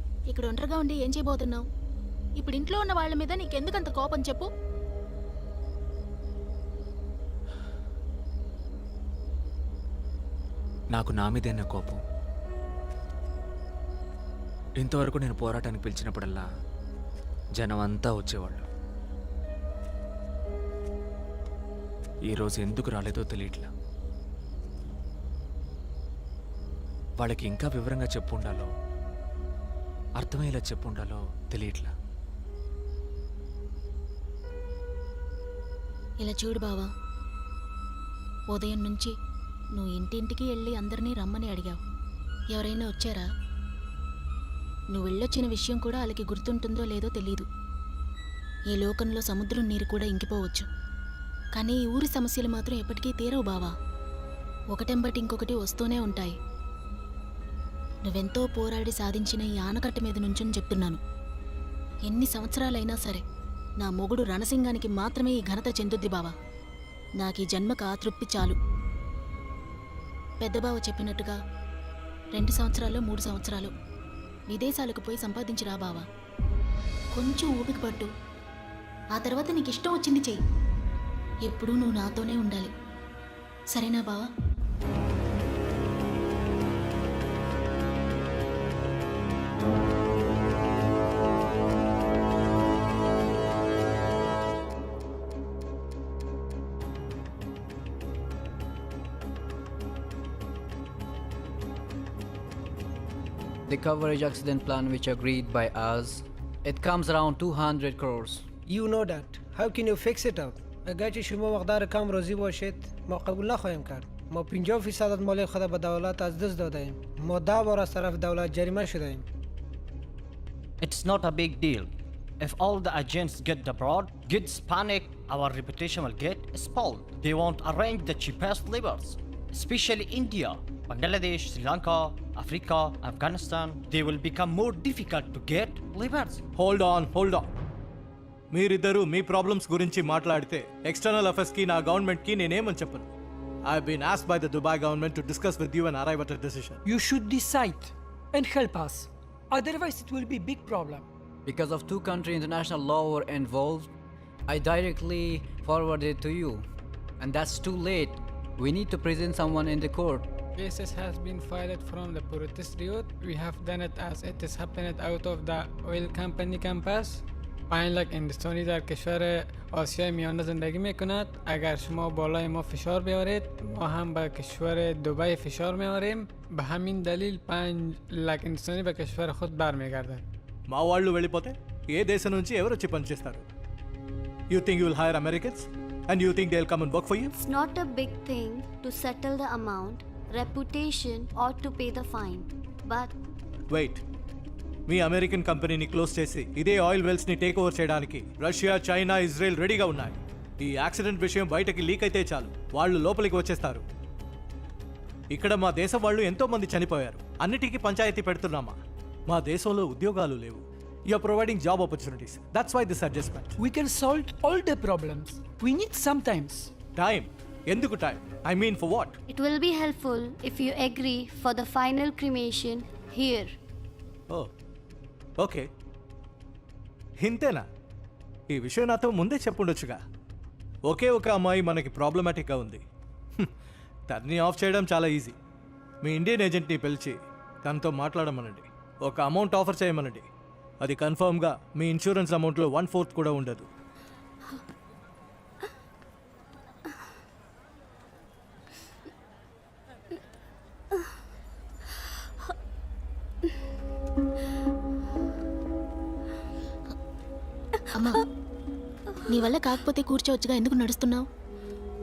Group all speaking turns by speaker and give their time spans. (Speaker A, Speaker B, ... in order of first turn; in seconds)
Speaker A: 0.3-1.6, 2.4-4.5, 36.2-36.9, 38.5-39.1, 39.8-41.8, 42.5-43.2, 44.9-47.5, 48.7-50.7, 51.5-53.7, 54.7-56.3, 58.1-61.0, 62.1-63.2, 63.8-66.3, 67.2-68.6, 70.4-71.3, 72.3-73.7, 74.5-76.0, 77.1-78.1, 79.1-80.4, 81.5-82.7, 83.7-84.2, 257.9-258.2, 259.3-261.2
Speaker B: 10.9-12.0, 14.8-16.4, 17.6-18.6, 22.3-23.7, 27.2-28.7, 30.2-31.9
Speaker C: 103.7-108.4, 151.4-153.9, 154.5-156.6, 157.2-160.3
Speaker D: 108.7-119.2
Speaker E: 120.8-136.4
Speaker F: 136.6-137.5, 138.5-143.1, 143.7-146.8, 180.7-183.4, 184.5-187.3, 193.7-194.0, 194.9-203.8, 205.3-213.5, 216.9-219.2, 225.4-225.7, 227.2-227.6, 228.5-230.0, 230.9-232.8, 234.1-235.3, 236.0-240.2, 240.8-243.7
Speaker G: 146.8-151.0, 213.6-216.7
Speaker H: 160.6-180.2
Speaker I: 187.3-193.1, 219.3-223.6